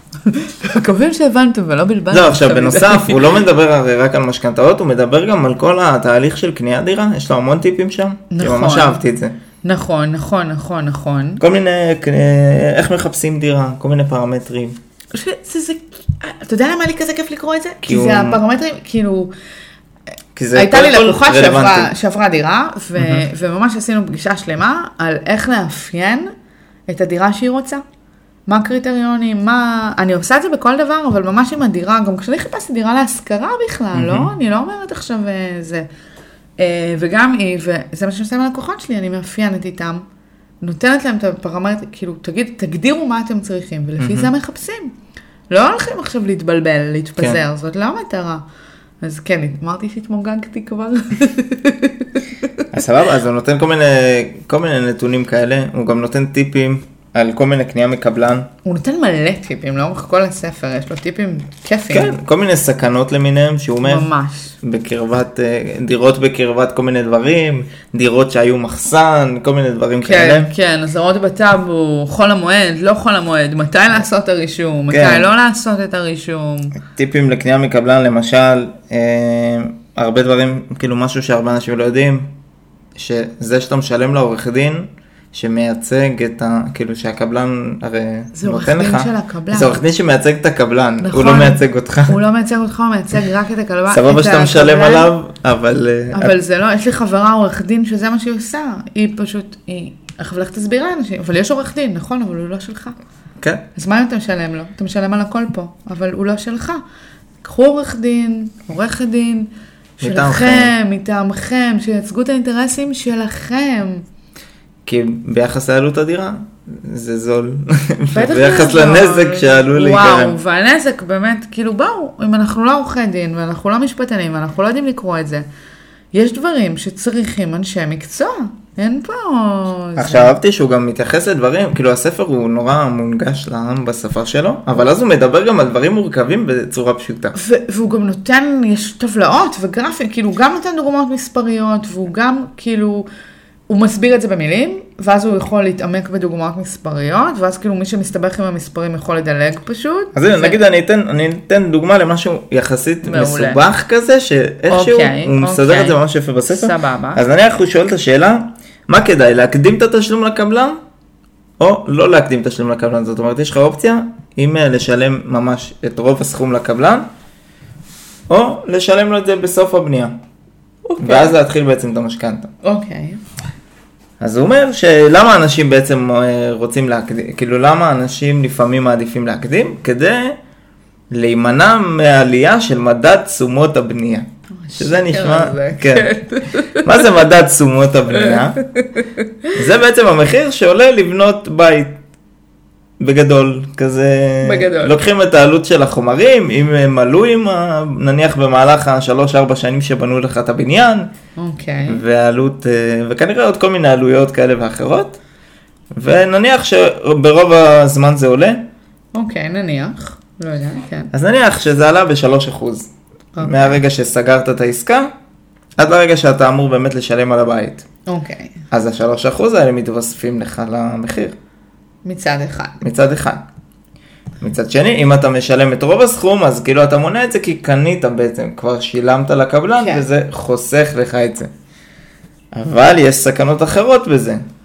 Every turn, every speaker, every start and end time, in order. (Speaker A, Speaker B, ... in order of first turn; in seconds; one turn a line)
Speaker A: 0.2-3.4
Speaker B: 2.1-9.3
Speaker A: 8.3-9.0
Speaker A: 9.6-11.4
Speaker B: 11.4-14.8
Speaker A: 15.1-19.3
Speaker B: 17.8-18.4
Speaker B: 20.3-21.9
Speaker A: 20.5-26.3
Speaker B: 23.0-23.2
Speaker A: 26.9-27.8
Speaker A: 28.5-35.9
Speaker B: 33.9-34.3
Speaker A: 36.6-40.0
Speaker A: 40.6-44.9
Speaker B: 44.0-44.3
Speaker A: 45.5-48.4
Speaker A: 49.0-52.6
Speaker B: 52.7-58.5
Speaker A: 58.6-62.2
Speaker B: 61.9-64.1
Speaker A: 63.8-64.5
Speaker B: 64.6-70.5
Speaker A: 70.0-76.8
Speaker B: 74.9-75.3
Speaker B: 76.8-82.3
Speaker B: 83.0-92.2
Speaker A: 88.3-89.8
Speaker A: 91.0-95.1
Speaker B: 93.9-96.3
Speaker A: 96.1-103.0
Speaker A: 103.8-106.8
Speaker A: 107.4-114.0
Speaker B: 110.0-110.7
Speaker B: 114.8-120.3
Speaker A: 118.1-125.5
Speaker A: 126.1-130.3
Speaker B: 130.0-137.3
Speaker A: 137.3-143.1
Speaker A: 143.7-150.6
Speaker B: 150.1-160.8
Speaker A: 153.0-153.6
Speaker A: 154.7-157.2
Speaker B: 161.6-167.1
Speaker B: 168.3-170.2
Speaker A: 170.8-171.3
Speaker B: 171.0-172.5
Speaker A: 172.6-173.2
Speaker B: 174.2-180.4
Speaker B: 181.1-186.1
Speaker A: 184.6-187.1
Speaker B: 186.8-188.6
Speaker A: 188.1-189.6
Speaker B: 189.5-192.0
Speaker B: 193.0-201.1
Speaker A: 194.4-195.0
Speaker A: 201.4-202.0
Speaker B: 201.9-205.2
Speaker B: 205.9-208.6
Speaker A: 209.1-211.1
Speaker B: 211.1-212.9
Speaker A: 213.3-213.8
Speaker B: 213.4-215.1
Speaker B: 215.8-217.8
Speaker A: 218.1-218.6
Speaker B: 218.7-221.3
Speaker A: 222.0-222.8
Speaker B: 222.8-223.4
Speaker B: 224.4-231.5
Speaker A: 229.8-230.1
Speaker B: 232.5-234.4